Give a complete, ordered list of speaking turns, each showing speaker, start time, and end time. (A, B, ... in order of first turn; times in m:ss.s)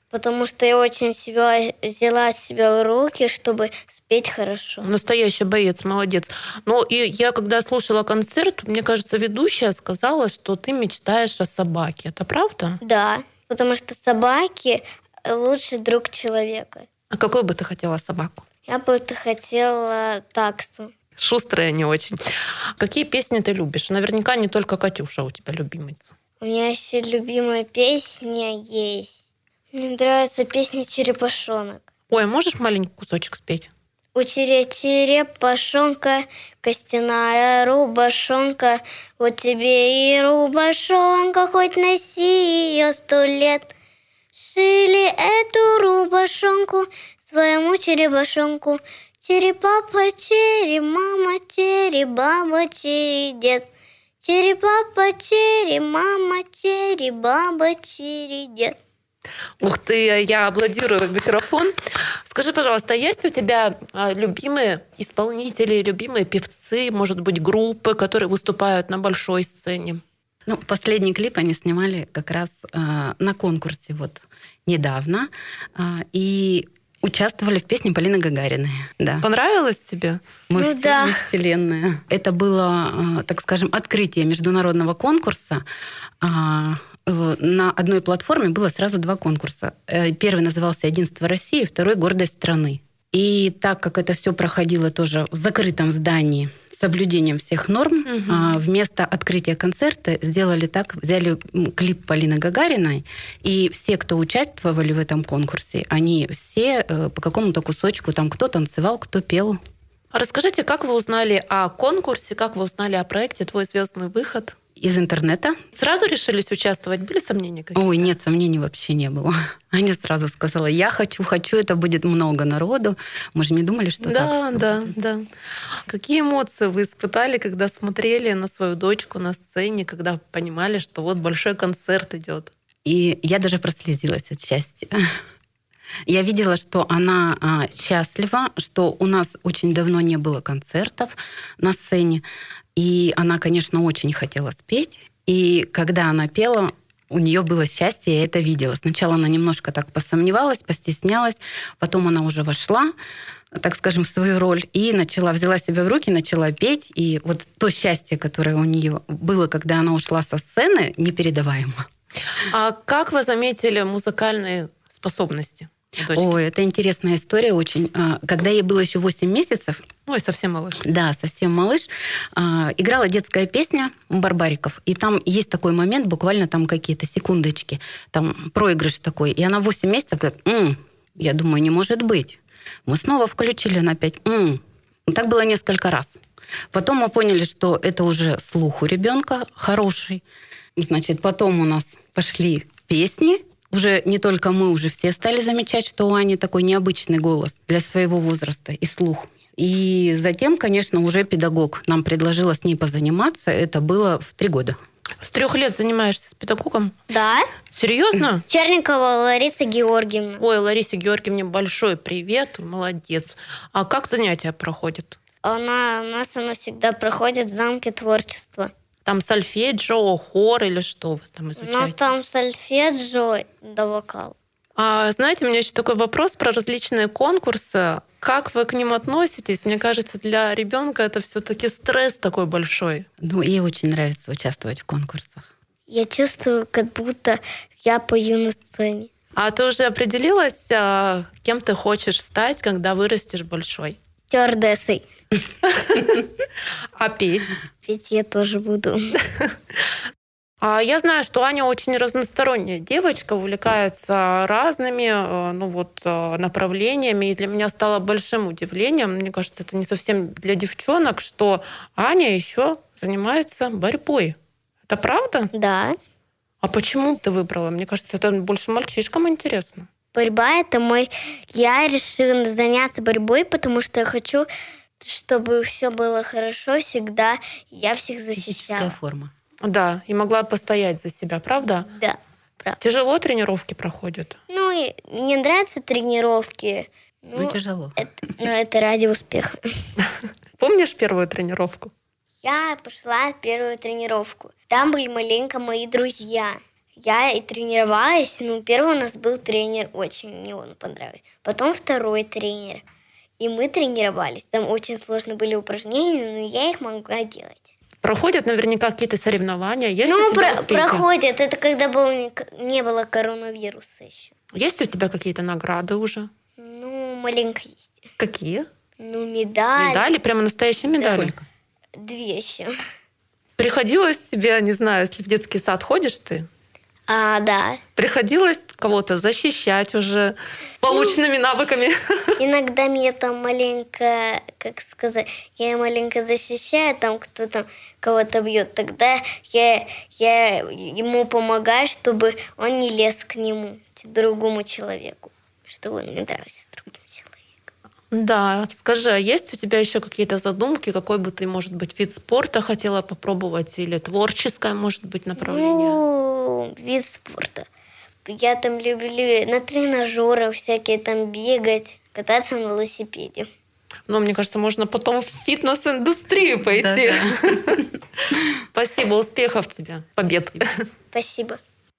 0:00.1-0:04.9 A
0:04.8-0:12.8 B
0:12.8-0:16.9 A
0:17.1-0:18.4 B
0:18.7-0:20.9 A
0:21.2-0:22.2 B
0:22.8-0:26.1 B
0:26.4-0:29.1 A
0:29.7-0:31.8 A
0:32.1-0:33.7 B
0:34.1-0:43.7 A
0:44.3-0:53.7 A
0:54.2-0:58.8 A
0:59.6-1:01.7 B
1:02.2-1:10.0 B
1:10.5-1:19.2 C
1:19.2-1:20.2 B
1:20.5-1:25.6 C
1:20.6-1:21.2 A
1:26.2-1:49.6 C
1:38.1-1:38.6 B
1:50.1-1:54.5 B
1:54.8-1:55.6 C
1:55.7-1:58.0 B
1:57.8-2:04.9 C
2:04.0-2:05.3 B
2:05.8-2:12.5 B
2:12.8-2:14.9 C
2:16.1-2:22.2 C
2:22.8-2:32.9 C
2:33.5-2:41.8 C
2:42.5-2:46.3 B
2:46.1-2:49.8 C
2:50.1-2:50.8 B
2:50.8-3:06.2 C
3:06.7-3:10.2 C
3:10.8-3:24.8 C
3:25.2-3:26.9 B
3:27.1-3:27.5 A
3:27.7-3:28.4 B
3:28.5-3:30.4 A
3:30.4-3:35.2 B
3:35.4-3:38.7 A
3:39.0-3:42.1 B
3:41.6-3:44.3 A
3:44.8-3:53.1 B
3:53.2-3:55.4 C
3:55.9-3:59.1 A
3:59.4-4:04.0 B
4:04.3-4:05.0 A
4:05.7-4:06.2 B
4:07.0-4:07.6 B
4:07.8-4:09.0 A
4:10.6-4:24.4 B
4:24.9-4:25.5 B
4:25.5-4:26.0 A
4:26.6-4:29.9 B
4:30.1-4:34.5 A
4:35.0-4:38.9 A
4:38.4-4:39.3 C
4:39.6-4:41.9 B
4:41.8-4:42.8 A
4:42.8-4:44.4 B
4:44.5-4:49.6 A
4:47.3-4:48.0 C
4:50.6-4:51.9 B
4:52.4-5:02.8 A
5:03.4-5:07.6 A
5:08.0-5:11.0 B
5:10.1-5:14.3 A
5:14.5-5:16.3 B
5:16.6-5:17.8 A
5:18.2-5:18.7 B
5:19.0-5:20.1 A
5:19.8-5:21.4 B
5:21.0-5:21.3 A
5:22.0-5:22.7 A
5:23.6-5:26.5 B
5:27.1-5:27.8 A
5:28.0-5:32.0 B
5:32.4-5:47.4 A
5:48.1-5:56.0 B
5:55.4-5:57.7 A
5:58.2-6:03.5 A
6:04.1-6:07.8 B
6:08.7-6:10.6 B
6:11.1-6:11.6 A